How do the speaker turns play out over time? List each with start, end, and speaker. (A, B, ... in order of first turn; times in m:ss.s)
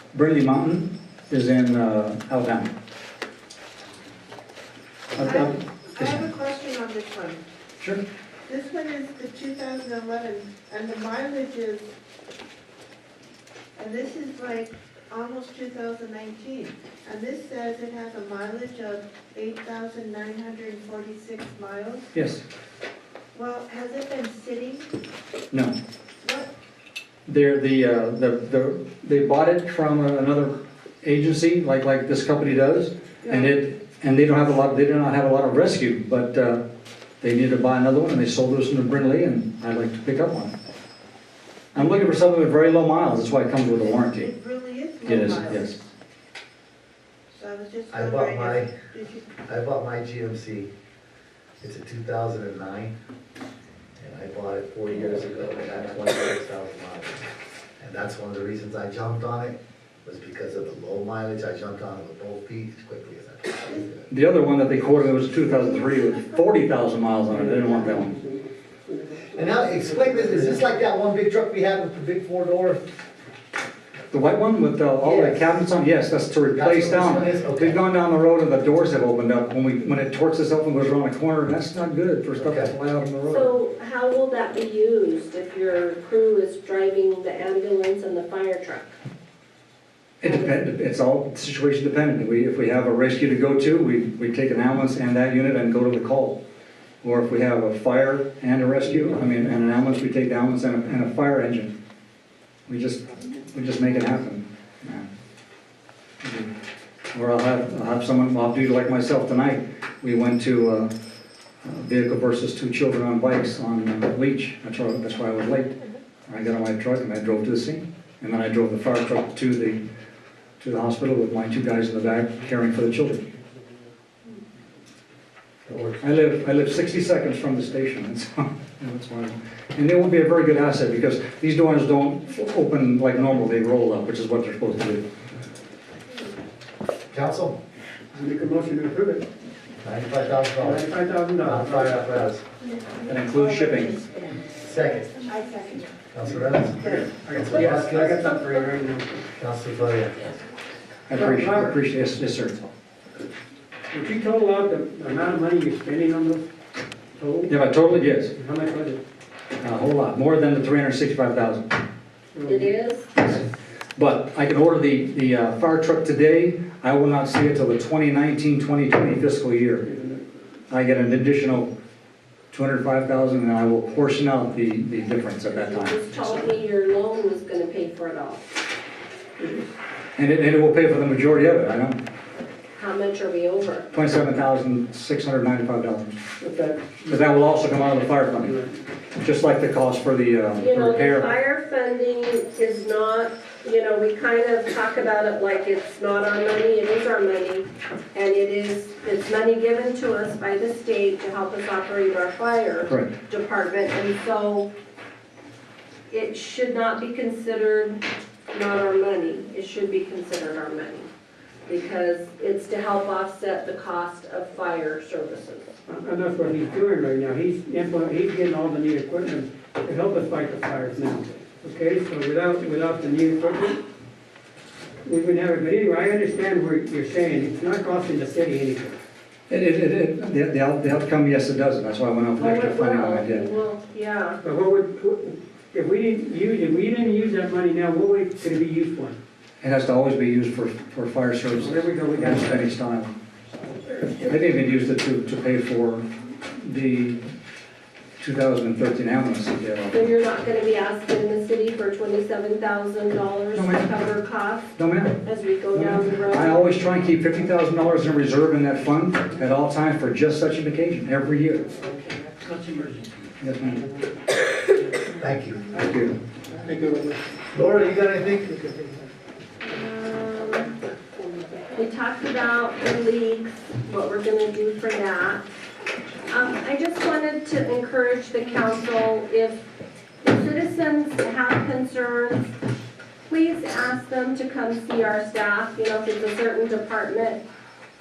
0:00.1-0:02.7 A
0:05.2-0:06.3 A
0:05.2-0:07.4 B
0:08.5-0:11.9 B
0:13.8-0:22.1 B
0:22.1-0:22.4 A
0:23.3-0:24.9 B
0:26.2-0:26.5 B
0:27.3-0:36.6 A
0:33.2-0:33.5 B
0:37.2-0:40.5 A
0:41.7-0:44.3 A
0:43.7-0:45.9 B
0:45.0-0:45.8 A
0:47.3-0:49.3 B
0:47.9-0:48.7 C
0:49.4-0:50.7 C
0:51.6-0:53.0 C
0:54.0-0:57.3 C
0:57.8-1:04.1 C
1:04.1-1:08.1 A
1:07.3-1:10.6 D
1:09.4-1:12.8 C
1:14.1-1:23.5 A
1:15.0-1:15.5 C
1:16.6-1:17.8 C
1:22.4-1:22.7 C
1:23.2-1:28.9 E
1:30.2-1:36.4 A
1:30.2-1:30.6 E
1:37.0-1:41.8 A
1:38.8-1:39.5 D
1:42.7-1:45.1 A
1:46.2-1:46.5 A
1:47.1-1:50.9 A
1:51.6-1:55.8 A
1:56.3-1:59.8 A
2:00.6-2:03.2 A
2:05.7-2:06.0 C
2:06.0-2:15.1 A
2:17.1-2:17.6 C
2:18.1-2:19.3 D
2:19.8-2:20.9 C
2:20.6-2:22.1 D
2:21.4-2:22.4 C
2:23.0-2:24.0 A
2:23.7-2:24.2 B
2:24.6-2:25.2 C
2:25.1-2:25.9 B
2:26.1-2:28.3 C
2:26.3-2:29.3 D
2:29.4-2:30.3 C
2:31.1-2:32.7 A
2:31.1-2:31.8 D
2:33.9-2:36.5 D
2:37.2-2:37.5 D
2:37.5-2:38.3 A
2:38.4-2:39.0 D
2:39.6-2:41.8 A
2:42.3-2:42.7 D
2:42.5-2:43.1 E
2:43.2-2:43.4 A
2:44.0-2:49.9 A
2:49.8-2:50.2 D
2:50.7-2:51.7 A
2:52.5-2:56.4 A
2:55.5-2:58.5 E
2:59.4-2:59.7 D
3:00.2-3:02.0 A
3:02.8-3:03.9 E
3:03.9-3:06.2 A
3:06.4-3:07.2 D
3:07.1-3:08.6 A
3:08.4-3:08.8 D
3:09.2-3:11.3 A
3:10.6-3:24.7 E
3:22.9-3:23.1 A
3:26.1-3:28.0 E
3:28.5-3:31.1 E
3:31.7-3:35.8 E
3:35.9-3:43.8 D
3:45.0-3:49.0 D
3:49.5-3:53.5 A
3:52.4-3:54.4 E
3:54.4-3:59.2 D
3:59.6-4:03.1 A
4:01.6-4:02.7 D
4:04.2-4:07.2 A
4:08.2-4:10.0 A
4:09.9-4:16.8 E
4:13.5-4:13.9 A
4:14.8-4:15.2 A
4:15.7-4:21.7 A
4:21.8-4:23.1 D
4:23.4-4:23.9 A
4:25.1-4:25.7 C
4:25.7-4:26.2 A
4:25.8-4:27.2 D
4:27.5-4:28.5 C
4:29.6-4:30.8 E
4:31.7-4:35.4 E
4:36.3-4:39.7 E
4:40.2-4:42.5 E
4:43.3-4:47.4 E